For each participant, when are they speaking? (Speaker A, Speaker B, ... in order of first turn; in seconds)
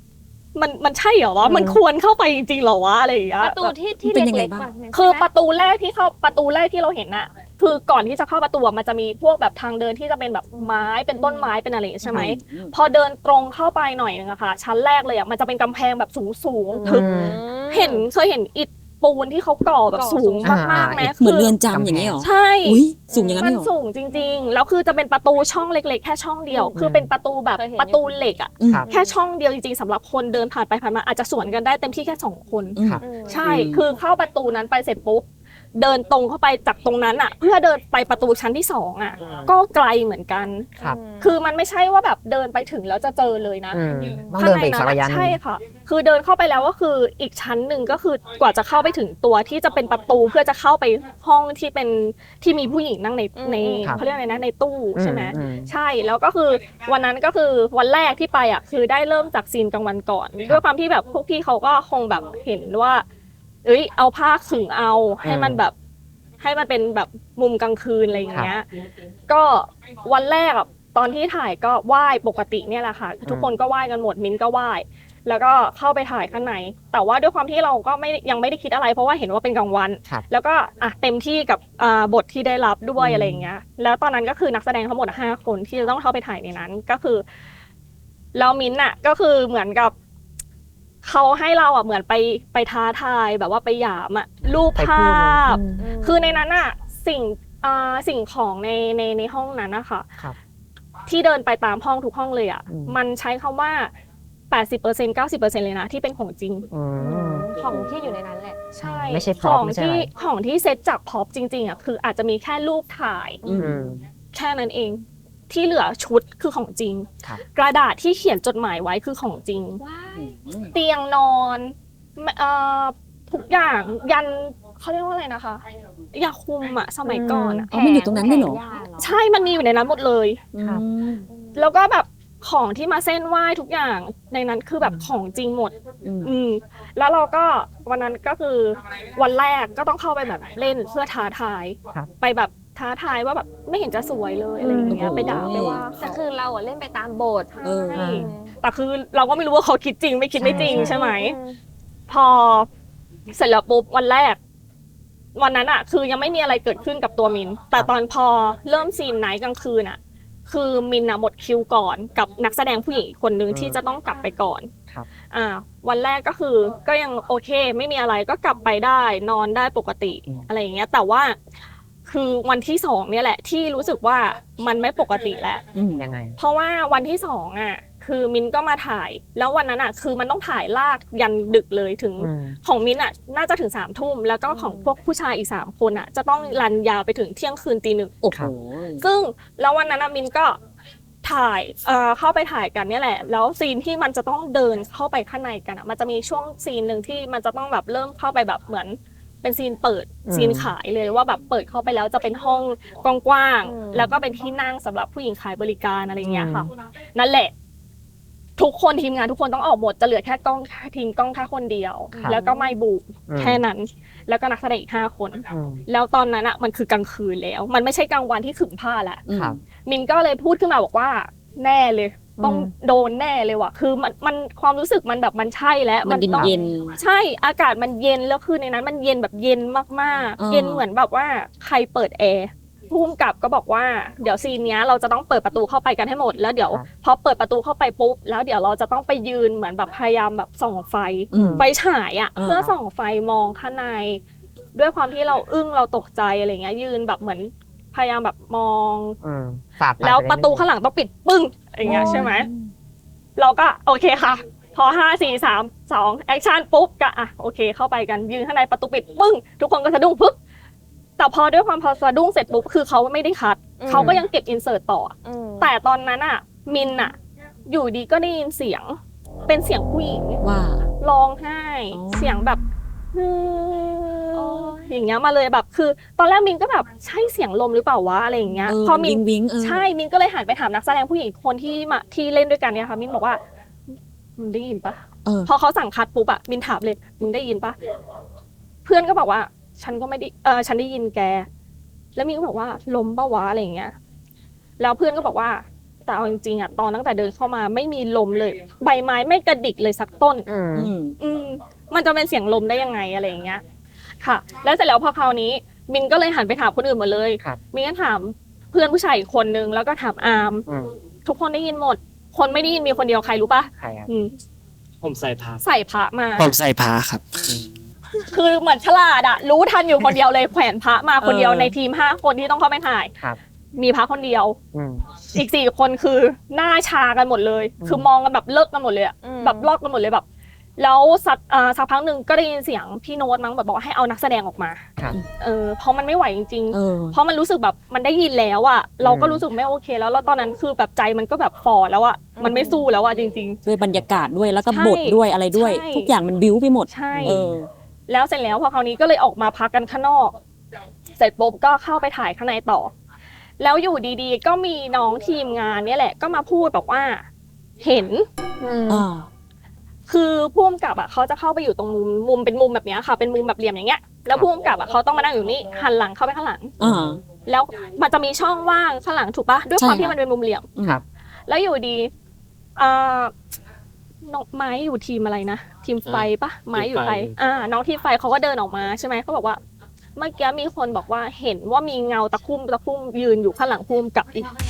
Speaker A: 0.6-3.7, 4.9-21.5, 22.2-22.8, 23.4-35.2, 35.8-40.7, 41.2-63.0, 63.6-65.7, 66.4-68.7, 69.3-87.2, 88.3-89.9, 91.0-100.1, 101.1-103.9, 104.5-106.7, 108.7-113.5, 114.3-119.8, 120.7-127.7, 129.0-130.4, 131.6-146.2, 147.7-151.4, 152.1-152.7, 153.3-154.4, 155.3-164.7, 165.3-171.4, 172.1-175.7, 176.4-188.2, 189.0-190.6, 191.2-207.5, 208.6-219.2, 219.8-244.2, 244.8-249.2, 250.0-252.5, 253.4-260.4, 261.2-267.2, 267.7-270.4, 271.0-272.6, 273.1-283.4, 284.4-287.8, 288.9-291.5, 292.2-293.9, 294.8-300.5, 301.2-303.6, 304.2-310.7, 311.2-314.3, 315.6-316.5, 318.3-323.1, 323.8-324.6, 325.3-330.2, 330.8-334.9, 335.4-343.6, 344.7-346.1, 346.9-347.4, 348.1-350.4, 351.2-352.9, 353.6-357.3, 357.8-358.3, 360.1-366.7, 367.5-370.7, 371.5-372.1, 372.8-373.3, 374.2-379.6, 380.2-384.5
Speaker B: 1.4-1.8, 16.9-17.4, 20.4-21.1, 21.7-22.2, 26.8-27.1, 39.2-39.5, 43.7-45.4, 55.0-55.7, 65.2-65.6, 73.3-73.5, 83.0-83.5, 94.8-95.9, 102.7-103.0, 106.7-107.5, 108.8-110.1, 113.5-114.0, 144.6-145.4, 147.9-148.3, 150.4-151.0, 163.5-163.8, 176.0-176.4, 182.2-182.6, 200.3-200.7, 206.2-206.7, 213.3-213.6, 215.5-215.8, 222.4-222.7, 241.3-241.7, 249.2-250.7, 251.9-252.2, 263.9-264.2, 300.5-300.9, 310.7-310.9, 313.8-314.1, 324.7-325.0, 327.8-328.1, 339.0-339.4, 347.1-347.6, 358.6-359.1, 366.8-367.1
Speaker C: 3.4-5.3, 11.2-11.5, 16.7-18.1, 19.9-20.9, 23.1-23.5, 24.1-24.4, 27.6-28.3, 28.8-29.2, 33.0-33.5, 40.8-41.4, 43.8-44.6, 53.4-54.1, 95.8-96.5, 107.0-108.6, 119.8-120.3, 127.7-129.2, 131.3-131.6, 144.6-148.5, 150.5-151.6, 184.5-184.9, 203.7-204.2, 212.1-212.7, 263.8-264.2, 265.2-265.7, 274.4-274.9, 329.2-329.7, 342.4-342.9
Speaker D: 4.0-4.7, 12.1-12.7, 21.2-23.7, 28.6-28.9, 32.8-33.8, 113.4-113.8, 120.1-120.7, 127.5-128.6, 130.5-131.3, 136.0-136.3, 144.9-145.8, 147.6-148.0, 175.7-176.1, 188.2-189.0, 219.3-219.6, 226.1-227.0, 230.4-230.8, 241.3-241.7, 242.4-242.7, 251.8-252.7, 270.4-270.9, 271.9-272.5, 278.7-279.8, 300.8-301.2, 321.2-321.8, 336.7-337.2, 343.6-347.7, 358.9-359.3, 366.8-367.2, 369.8-370.1
Speaker E: 315.0-315.6, 316.4-317.7, 376.1-377.3